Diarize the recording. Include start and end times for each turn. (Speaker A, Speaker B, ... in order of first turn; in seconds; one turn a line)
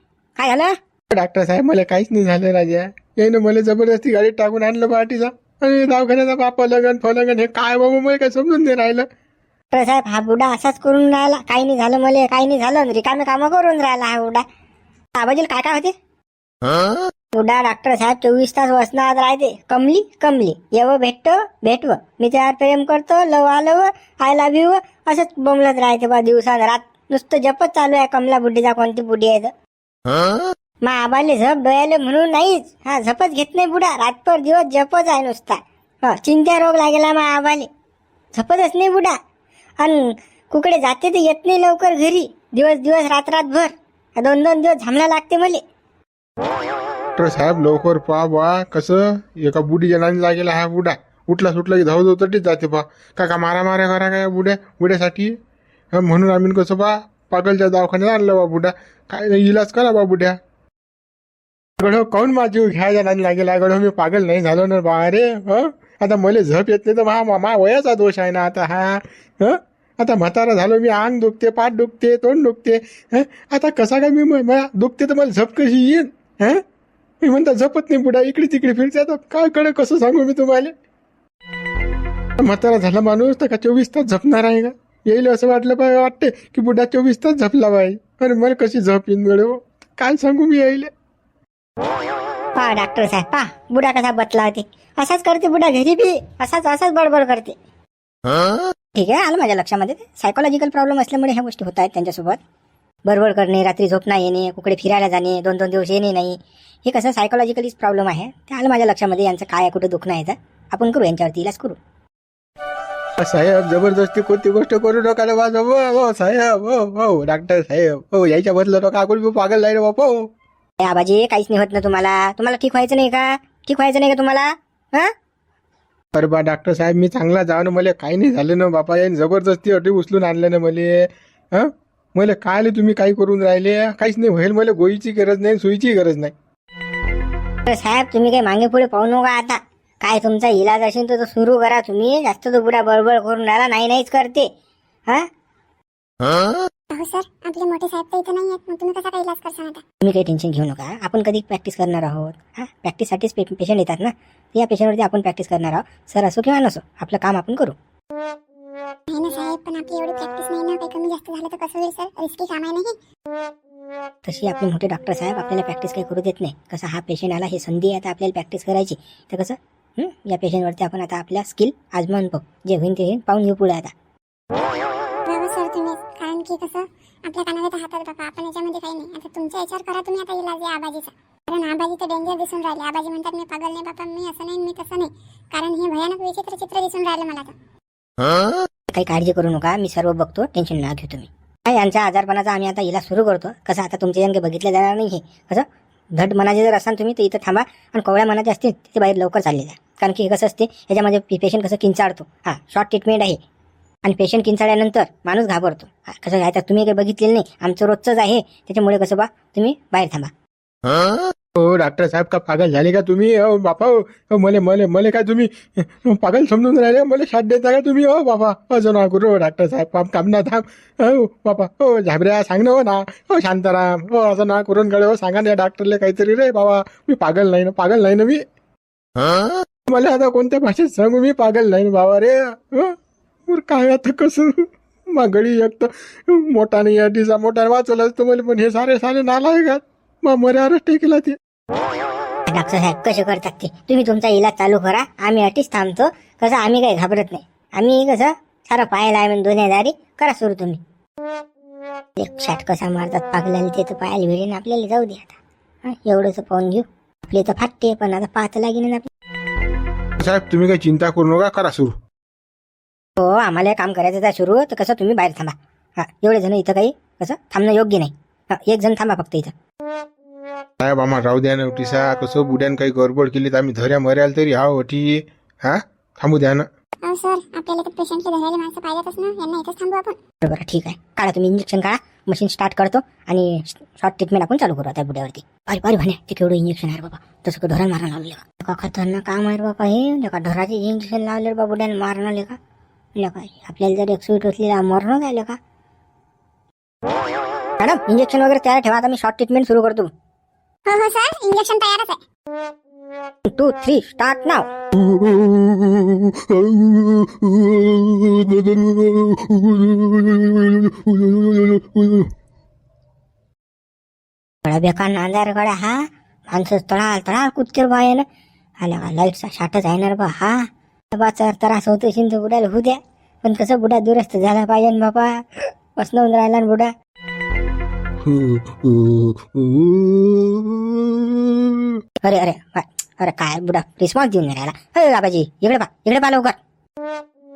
Speaker A: 0.4-0.7
Speaker B: 1.1-9.1
Speaker A: 9.7-14.4
Speaker A: 15.2-15.9
Speaker A: 17.0-29.5
Speaker A: 30.8-37.7
Speaker A: 38.3-39.2
Speaker A: 39.8-45.6
Speaker B: 47.1-55.3
Speaker B: 55.9-60.4
Speaker B: 61.8-76.6
Speaker B: 77.2-80.7
Speaker B: 82.4-90.9
Speaker A: 92.5-97.5
Speaker A: 98.9-102.4
Speaker A: 103.0-111.8
Speaker B: 113.2-120.3
Speaker A: 120.8-125.1
Speaker B: 126.1-136.3
Speaker A: 137.7-144.5
Speaker C: 146.9-149.8
Speaker A: 150.0-157.8
Speaker C: 159.1-162.9
Speaker A: 164.2-173.9
Speaker C: 175.2-187.5
Speaker A: 188.9-203.4
Speaker A: 204.0-210.3
Speaker B: 211.5-228.4
Speaker B: 229.4-241.4
Speaker A: 242.5-250.8
Speaker A: 252.2-259.1
Speaker B: 260.2-262.0
Speaker A: 263.2-269.5
Speaker B: 270.8-276.7
Speaker C: 277.0-280.2
Speaker A: 280.4-292.6
Speaker A: 293.1-295.6
Speaker A: 297.8-300.1
Speaker C: 300.9-302.2
Speaker A: 303.5-304.7
Speaker B: 304.9-312.3
Speaker A: 314.6-318.2
Speaker A: 318.8-326.9
Speaker B: 328.2-332.0
Speaker A: 332.2-336.6